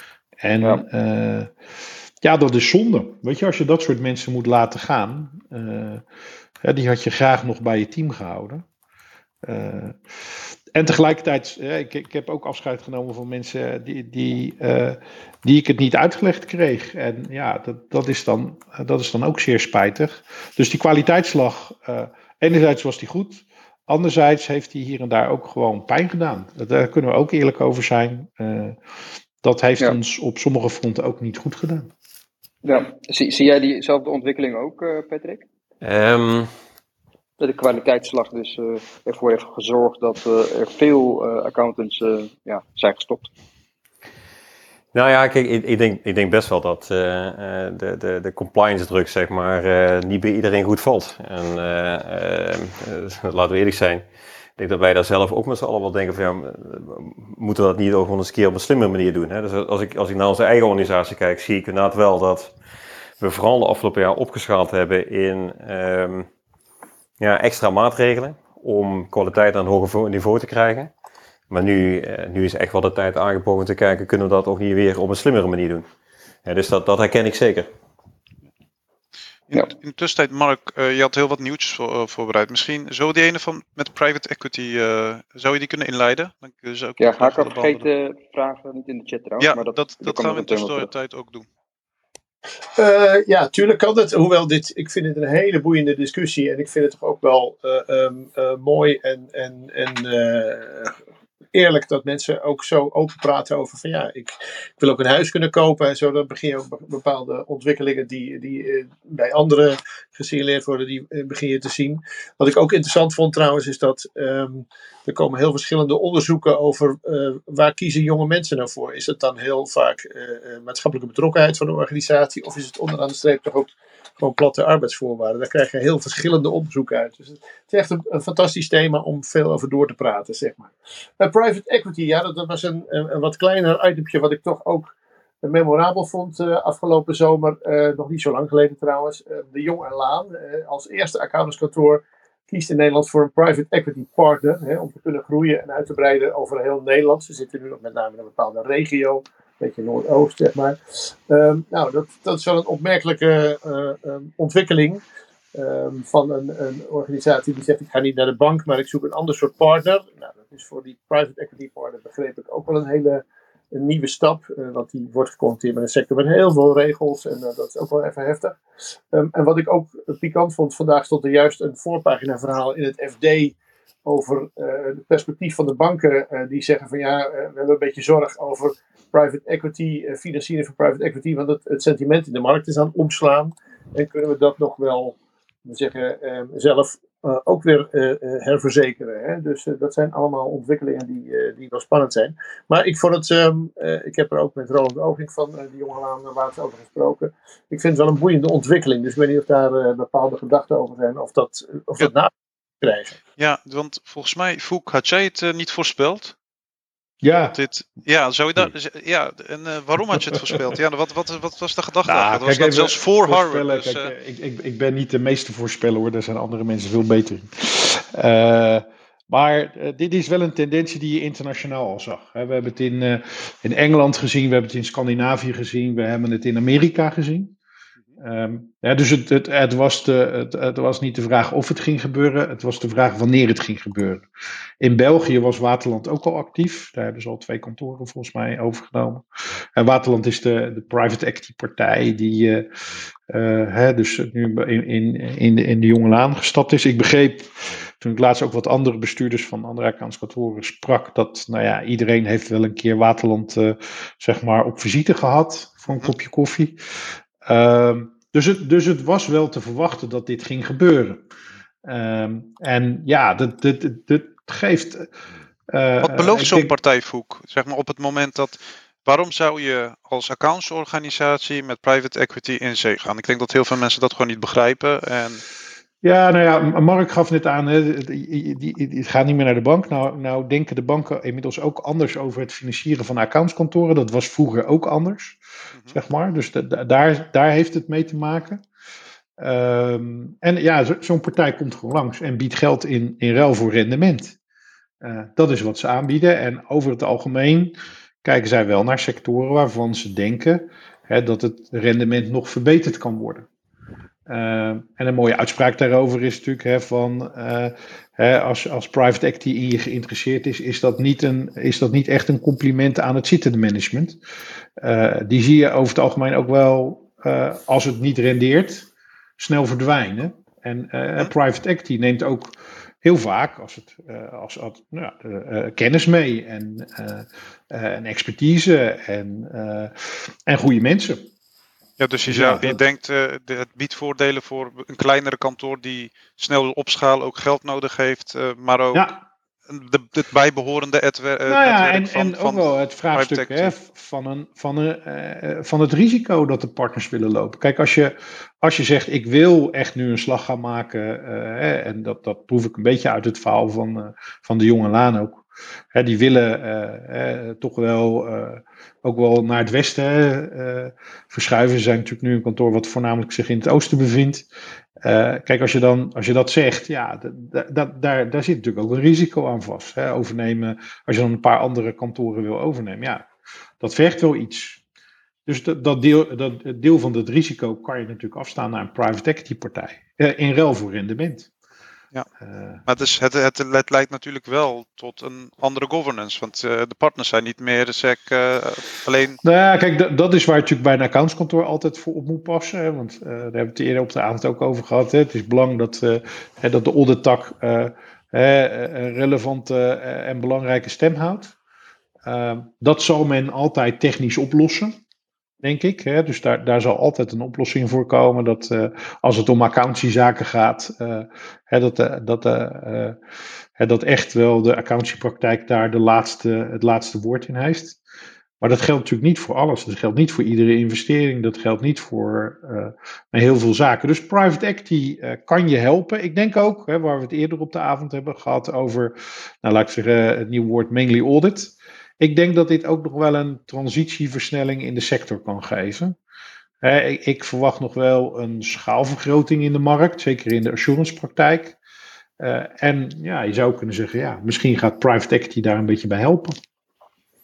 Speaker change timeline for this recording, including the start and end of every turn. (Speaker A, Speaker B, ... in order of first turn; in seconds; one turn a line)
Speaker A: 0.4-1.5
Speaker A: 2.2-6.0
Speaker A: 6.6-8.6
Speaker A: 9.4-28.8
Speaker A: 29.4-31.9
Speaker B: 32.6-35.4
Speaker C: 35.8-36.5
Speaker B: 37.4-43.3
Speaker C: 44.9-54.0
Speaker C: 54.6-62.5
Speaker C: 63.2-66.3
Speaker C: 67.2-70.9
Speaker C: 71.5-75.8
Speaker C: 76.4-77.7
Speaker D: 79.5-87.9
Speaker B: 87.0-90.9
Speaker D: 89.4-91.5
Speaker E: 92.8-100.9
Speaker E: 101.5-155.0
Speaker E: 155.5-168.6
Speaker E: 169.1-173.5
Speaker E: 174.1-203.1
Speaker D: 203.4-206.3
Speaker A: 207.2-207.6
Speaker D: 207.5-214.1
Speaker A: 212.1-227.5
Speaker A: 228.2-234.2
Speaker A: 234.8-239.2
Speaker A: 239.8-242.7
Speaker A: 243.3-261.2
Speaker A: 261.8-265.1
Speaker A: 265.7-266.7
Speaker D: 266.0-275.4
Speaker A: 276.0-285.4
Speaker A: 285.9-288.6
Speaker A: 289.4-294.4
Speaker A: 295.0-303.5
Speaker A: 304.3-314.2
Speaker A: 314.8-331.2
Speaker D: 332.0-339.1
Speaker A: 332.3-332.8
Speaker D: 339.7-343.7
Speaker A: 341.4-364.5
Speaker A: 365.0-373.3
Speaker A: 373.8-374.8
Speaker A: 375.4-381.5
Speaker A: 382.4-382.8
Speaker D: 382.9-389.4
Speaker A: 389.4-401.5
Speaker A: 402.2-405.0
Speaker A: 405.6-413.2
Speaker A: 413.8-418.0
Speaker A: 418.6-436.1
Speaker A: 436.8-441.8
Speaker A: 442.4-446.6